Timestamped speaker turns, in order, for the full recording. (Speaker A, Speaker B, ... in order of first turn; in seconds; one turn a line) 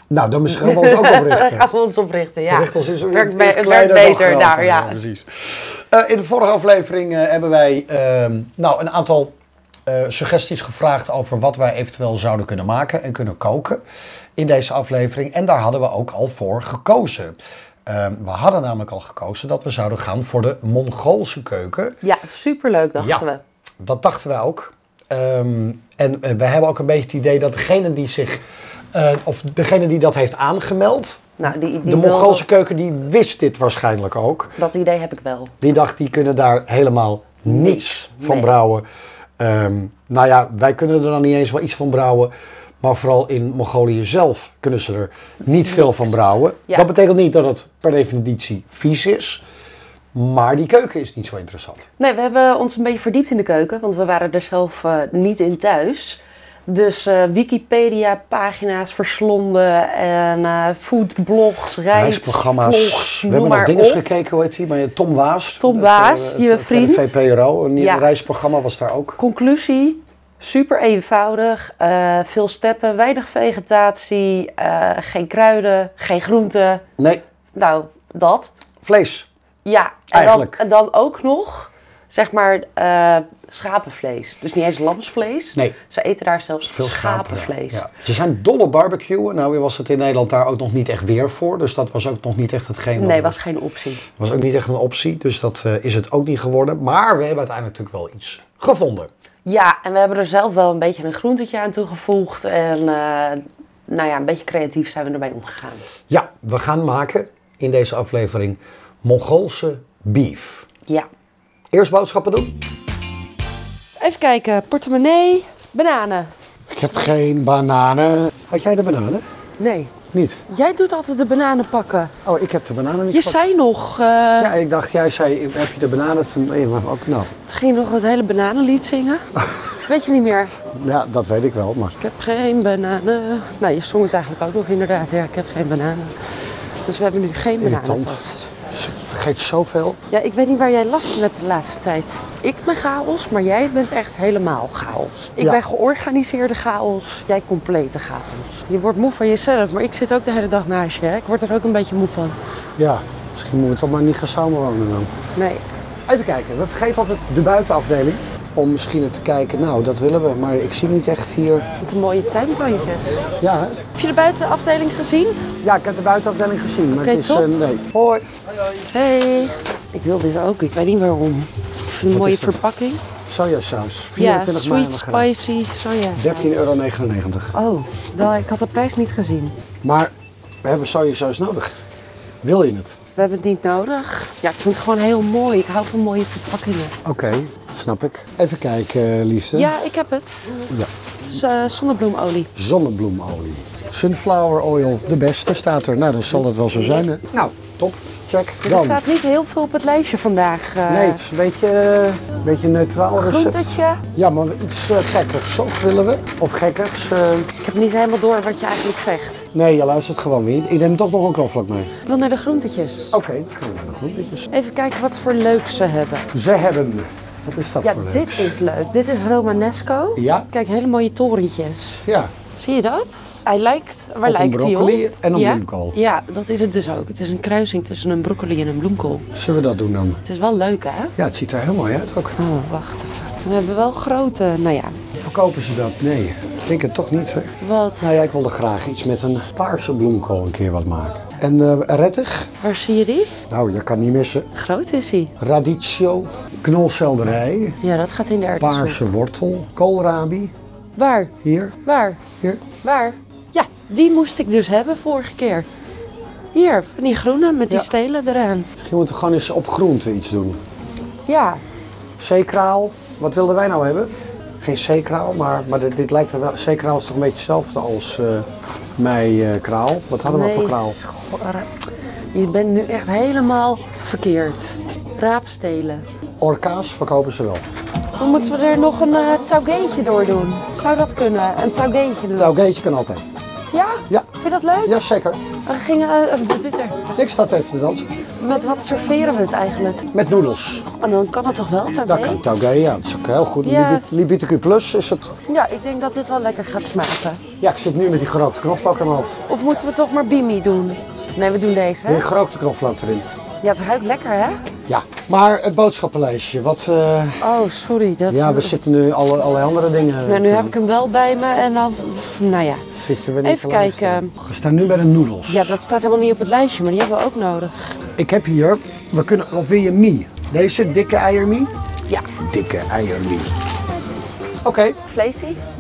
Speaker A: 0.1-1.7
Speaker B: 0.5-5.0
Speaker A: 2.5-9.3
Speaker A: 9.9-13.8
Speaker A: 14.4-22.0
Speaker B: 22.0-23.4
Speaker A: 23.0-23.3
Speaker A: 23.8-28.4
Speaker A: 28.9-31.3
Speaker B: 31.4-32.5
Speaker A: 31.8-34.5
Speaker B: 34.6-35.5
Speaker A: 35.6-38.9
Speaker B: 37.5-38.5
Speaker A: 39.4-49.4
Speaker A: 50.1-51.9
Speaker B: 52.0-64.0
Speaker A: 61.9-69.2
Speaker B: 65.6-67.2
Speaker B: 67.8-68.1
Speaker B: 69.2-76.8
Speaker B: 77.5-78.5
Speaker A: 78.8-79.3
Speaker B: 79.7-87.8
Speaker A: 80.1-80.6
Speaker A: 86.7-93.4
Speaker B: 93.0-94.0
Speaker A: 94.2-99.1
Speaker B: 99.5-105.8
Speaker A: 106.1-110.7
Speaker A: 111.7-112.5
Speaker B: 114.0-116.3
Speaker A: 116.7-119.2
Speaker B: 119.6-120.0
Speaker A: 120.1-120.4
Speaker B: 120.5-122.1
Speaker A: 122.2-123.4
Speaker B: 123.1-124.5
Speaker A: 124.4-127.3
Speaker B: 127.5-129.2
Speaker A: 129.4-129.7
Speaker B: 129.8-130.6
Speaker A: 130.7-132.0
Speaker B: 132.0-136.3
Speaker B: 136.8-138.5
Speaker A: 137.6-140.0
Speaker B: 140.1-152.4
Speaker A: 152.8-155.1
Speaker B: 155.4-155.6
Speaker A: 156.1-161.7
Speaker B: 161.8-163.2
Speaker A: 163.4-163.8
Speaker B: 163.9-165.4
Speaker A: 165.6-168.2
Speaker B: 167.0-167.5
Speaker B: 168.9-173.0
Speaker A: 172.1-172.6
Speaker A: 173.3-175.3
Speaker B: 174.2-176.5
Speaker A: 176.2-177.5
Speaker B: 177.5-179.6
Speaker A: 179.8-180.1
Speaker A: 180.6-181.8
Speaker A: 182.4-183.0
Speaker B: 183.2-186.9
Speaker A: 187.0-189.8
Speaker B: 189.5-190.7
Speaker B: 191.3-192.5
Speaker A: 192.6-199.0
Speaker B: 198.6-201.2
Speaker A: 200.9-207.5
Speaker B: 203.2-204.0
Speaker B: 207.6-209.5
Speaker A: 209.5-211.9
Speaker B: 212.1-213.2
Speaker A: 213.1-214.5
Speaker B: 214.5-216.3
Speaker A: 216.3-218.6
Speaker B: 217.8-222.0
Speaker A: 220.2-220.5
Speaker A: 222.1-222.3
Speaker B: 222.6-229.3
Speaker A: 224.2-226.0
Speaker A: 229.3-230.2
Speaker B: 230.2-231.1
Speaker A: 231.2-232.4
Speaker B: 232.4-235.0
Speaker A: 235.2-242.5
Speaker B: 237.6-238.2
Speaker B: 242.6-243.4
Speaker A: 243.5-244.5
Speaker B: 244.5-245.3
Speaker A: 245.4-247.8
Speaker B: 247.8-249.0
Speaker A: 248.6-250.5
Speaker B: 251.0-255.7
Speaker A: 251.4-251.8
Speaker A: 252.3-252.6
Speaker B: 256.5-258.7
Speaker A: 258.8-260.6
Speaker B: 261.3-261.6
Speaker A: 262.2-271.0
Speaker B: 270.2-271.7
Speaker B: 272.3-276.1
Speaker A: 276.4-277.7
Speaker B: 278.2-282.6
Speaker A: 282.4-283.3
Speaker B: 283.7-285.0
Speaker A: 284.8-285.4
Speaker B: 285.6-287.1
Speaker A: 287.1-288.1
Speaker B: 288.4-290.0
Speaker A: 290.1-290.9
Speaker B: 290.9-292.4
Speaker A: 292.1-295.4
Speaker B: 293.6-294.1
Speaker B: 295.5-297.4
Speaker A: 297.6-299.4
Speaker B: 299.5-302.2
Speaker A: 302.1-303.3
Speaker B: 303.6-304.6
Speaker A: 304.9-307.5
Speaker B: 307.4-308.8
Speaker A: 308.3-310.8
Speaker B: 310.3-312.9
Speaker A: 312.9-315.8
Speaker B: 313.4-314.3
Speaker B: 315.5-318.0
Speaker A: 318.2-321.7
Speaker A: 322.4-323.6
Speaker A: 324.6-325.0
Speaker B: 325.1-325.6